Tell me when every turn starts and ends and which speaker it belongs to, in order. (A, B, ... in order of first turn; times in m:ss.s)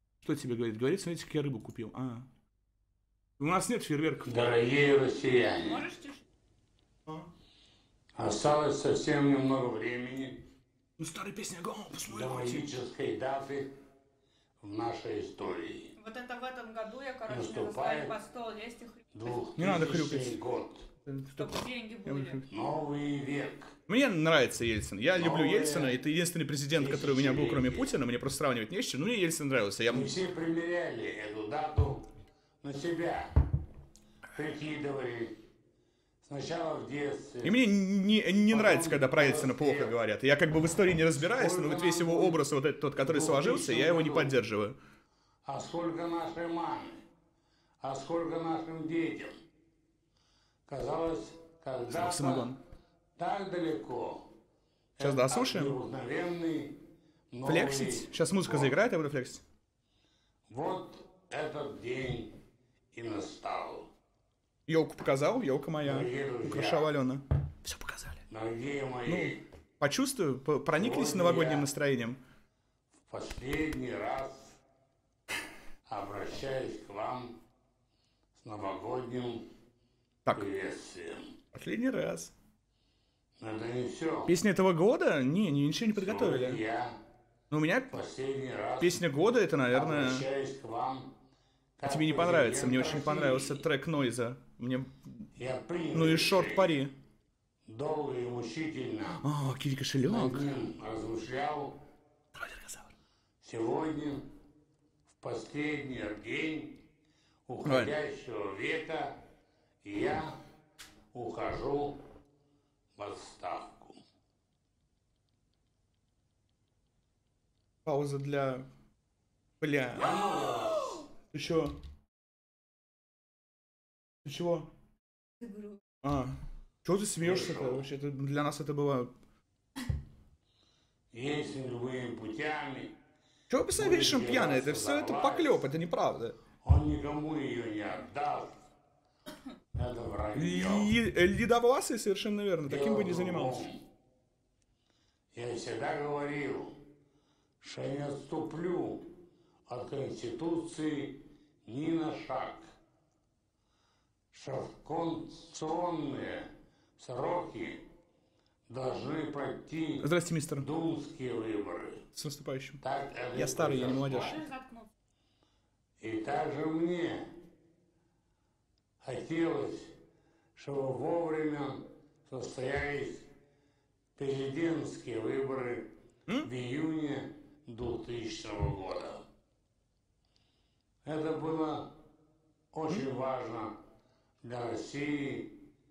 0:00.2-0:02.3 A
0:03.4-0:04.5 A
0:04.2-0:05.8 B
0:05.5-0:06.2 C
0:08.2-0:10.4 B
0:11.0-0:12.7 A
0:12.1-0:13.7 B
0:14.6-0:15.9 B
0:16.0-0:19.1 C
0:17.3-0:18.2 B
0:19.1-0:20.8 B
0:19.6-0:20.3 A
0:21.0-0:22.4 A
0:21.4-0:22.4 C
0:22.5-0:23.7 B
0:23.9-0:30.2 A
0:25.1-0:26.0 B
0:26.7-0:27.9 B
0:29.9-0:33.3 B
0:34.3-0:35.4 B
0:36.2-0:37.6 B
0:37.4-0:44.8 A
0:38.5-0:39.9 B
0:41.2-0:42.4 B
0:43.0-0:44.3 B
0:45.4-0:47.0 B
0:47.8-0:49.4 B
0:50.7-0:52.5 B
0:51.9-0:52.6 A
0:53.2-0:54.3 B
0:55.0-0:56.8 B
0:55.0-0:55.8 A
0:57.3-0:58.7 B
0:57.4-0:59.4 A
1:00.5-1:02.4 B
1:02.9-1:03.9 B
1:04.7-1:08.2 A
1:05.8-1:06.9 B
1:08.3-1:09.4 B
1:09.1-1:12.2 A
1:10.8-1:11.7 B
1:13.0-1:14.6 B
1:15.9-1:17.4 B
1:18.4-1:19.5 B
1:20.3-1:21.3 B
1:21.5-1:22.3 A
1:23.4-1:24.3 B
1:24.3-1:26.6 A
1:26.0-1:27.0 B
1:27.5-1:27.9 A
1:27.9-1:29.0 B
1:28.8-1:30.2 A
1:29.7-1:31.2 B
1:31.8-1:33.6 B
1:31.8-1:35.2 A
1:35.4-1:36.8 B
1:35.9-1:36.9 A
1:37.6-1:39.2 B
1:39.2-1:40.5 A
1:40.0-1:41.8 B
1:42.3-1:42.9 A
1:43.4-1:44.3 B
1:45.1-1:46.8 B
1:47.5-1:49.2 B
1:47.6-1:47.9 A
1:49.8-1:50.4 B
1:51.1-1:52.0 B
1:52.9-1:54.0 B
1:57.8-1:58.7 A
1:59.6-2:01.8 A
1:59.9-2:00.9 B
2:04.2-2:04.7 A
2:05.4-2:05.8 C
2:06.0-2:09.1 A
2:07.2-2:07.8 B
2:11.1-2:13.0 B
2:13.5-2:16.4 A
2:13.8-2:15.6 B
2:16.6-2:18.6 B
2:19.7-2:20.9 B
2:20.3-2:23.6 A
2:22.6-2:23.8 B
2:25.3-2:26.8 B
2:27.6-2:29.1 B
2:29.7-2:32.7 B
2:34.3-2:37.9 B
2:38.7-2:42.0 B
2:40.0-2:40.6 A
2:42.2-2:42.8 A
2:42.8-2:44.4 B
2:43.3-2:44.4 A
2:44.1-2:44.9 C
2:46.0-2:47.3 B
2:49.0-2:49.9 B
2:50.6-2:53.3 B
2:54.2-2:59.2 B
3:01.0-3:01.9 B
3:02.7-3:03.8 B
3:04.4-3:05.6 B